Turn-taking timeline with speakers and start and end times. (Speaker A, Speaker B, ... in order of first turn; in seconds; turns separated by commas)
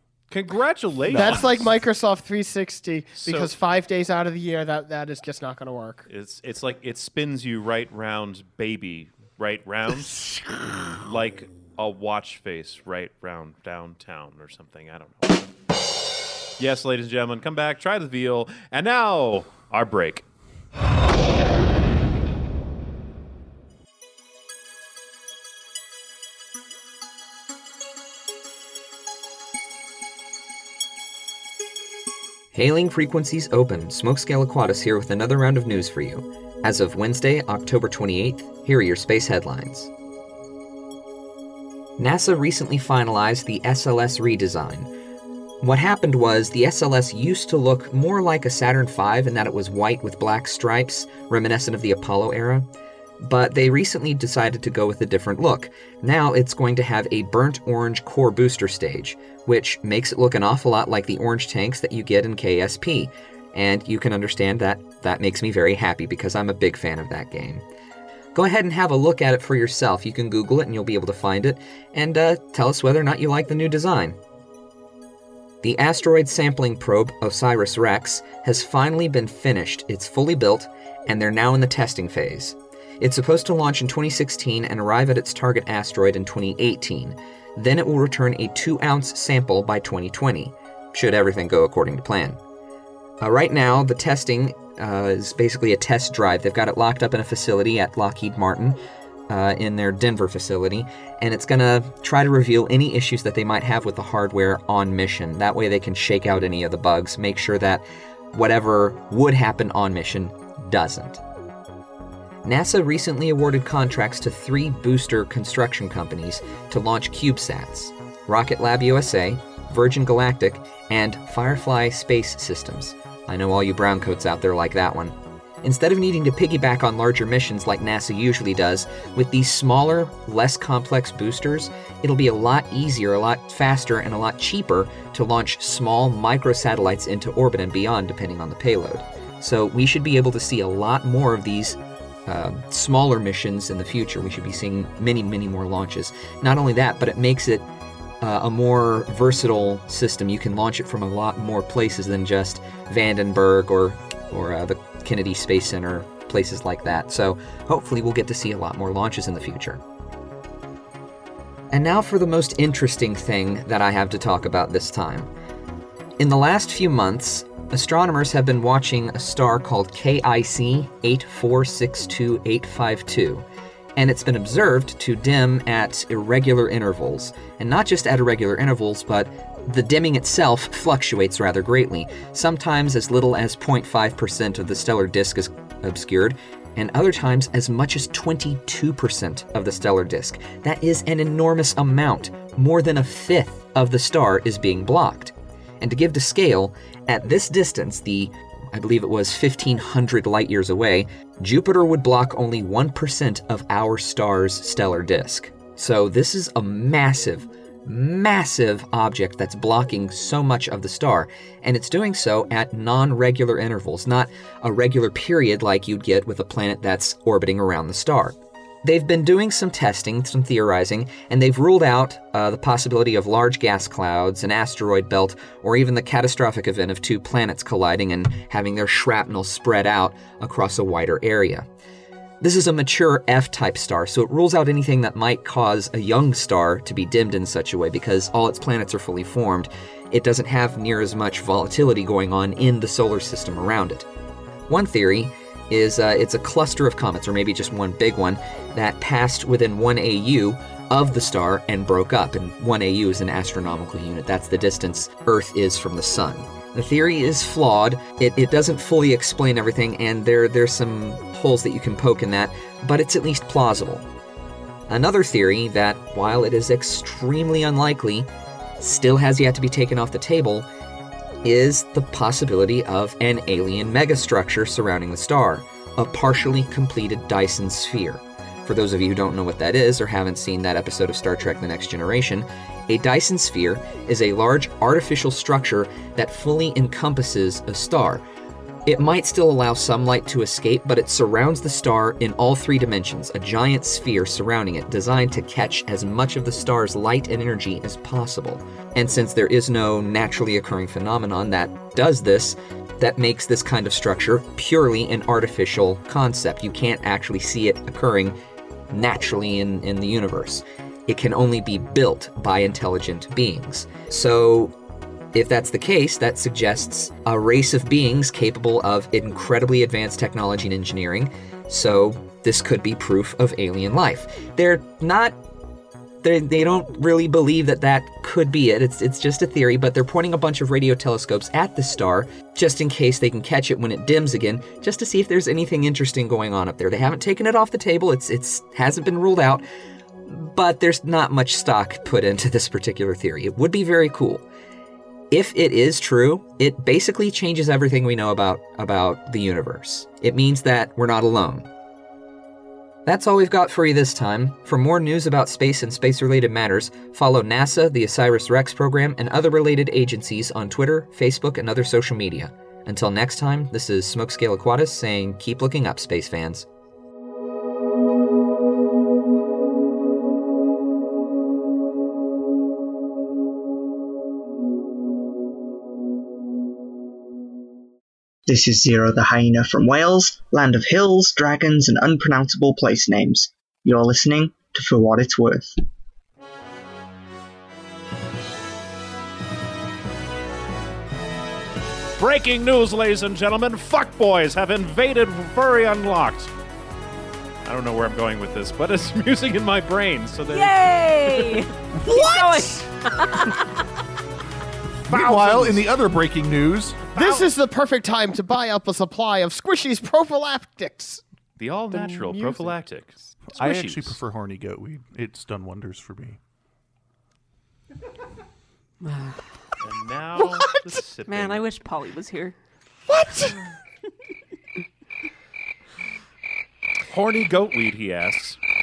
Speaker A: 0.3-1.7, Speaker B: 1.1-1.5, Speaker C: 1.1-6.1, Speaker A: 3.2-3.5, Speaker A: 6.1-15.5, Speaker A: 16.6-20.3, Speaker D: 32.5-39.9, Speaker D: 42.0-44.9, Speaker D: 45.6-52.7, Speaker D: 53.2-67.6, Speaker D: 68.3-74.2, Speaker D: 75.6-92.4, Speaker D: 93.2-111.2, Speaker D: 112.4-147.7, Speaker D: 148.2-159.8, Speaker D: 161.7-165.3, Speaker D: 166.2-173.4, Speaker D: 174.0-231.7, Speaker D: 232.4-244.1, Speaker D: 244.7-264.1, Speaker D: 264.9-270.7, Speaker D: 271.4-288.2, Speaker D: 288.9-308.4, Speaker D: 308.9-314.7, Speaker D: 315.3-325.4, Speaker D: 326.2-339.6, Speaker D: 340.3-344.4, Speaker D: 345.3-351.7, Speaker D: 353.1-366.7, Speaker E: 378.5-385.8, Speaker A: 392.2-396.5, Speaker A: 397.6-401.6, Speaker F: 400.5-403.7, Speaker B: 402.1-402.4, Speaker A: 405.1-405.8, Speaker B: 405.1-407.1, Speaker A: 407.1-407.5, Speaker C: 407.1-411.2, Speaker A: 411.6-414.2, Speaker C: 411.9-412.8, Speaker B: 413.5-416.4, Speaker F: 419.0-419.4, Speaker A: 419.8-421.6, Speaker F: 421.3-422.6, Speaker C: 423.1-423.6, Speaker A: 427.1-428.6